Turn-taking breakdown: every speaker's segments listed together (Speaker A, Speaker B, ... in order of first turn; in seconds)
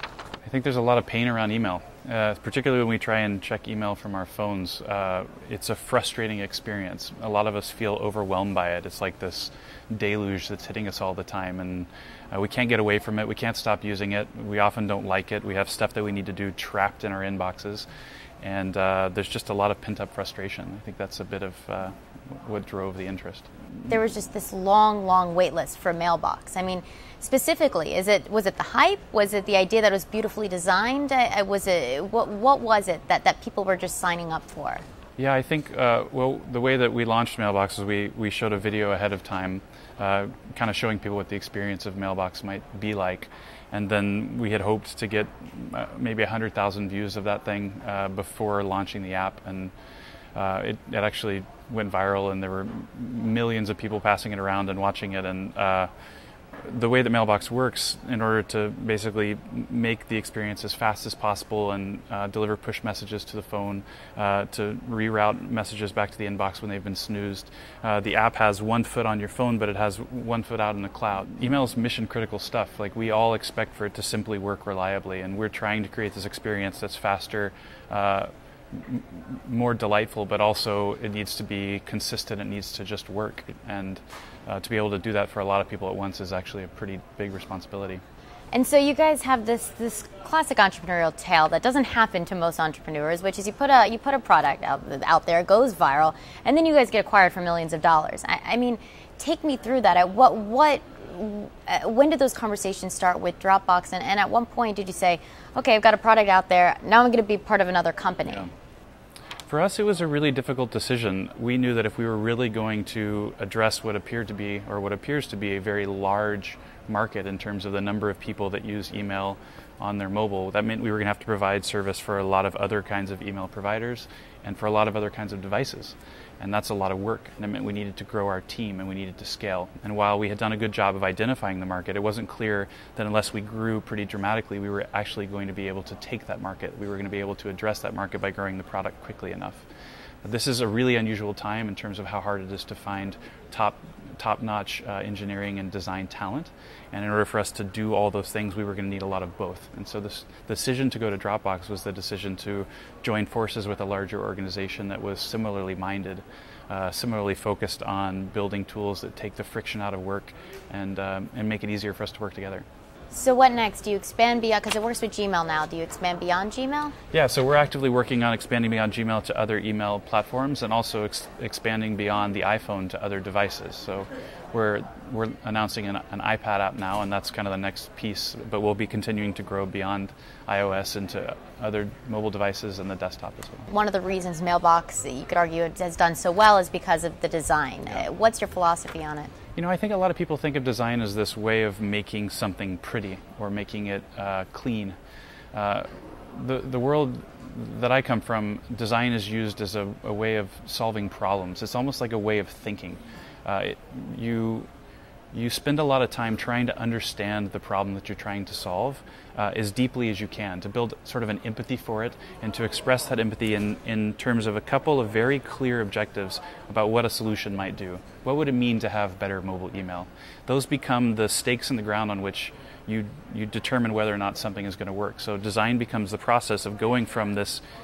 Speaker A: 0.5-17.9, 18.4-23.5, 35.2-49.7, 50.4-55.9, 56.6-88.0, 109.5-139.7, 140.2-162.7, 167.1-183.7, 189.6-195.0, 195.5-204.7, 205.3-227.6
Speaker B: 23.9-34.8, 88.5-108.5, 163.1-166.9, 183.7-189.3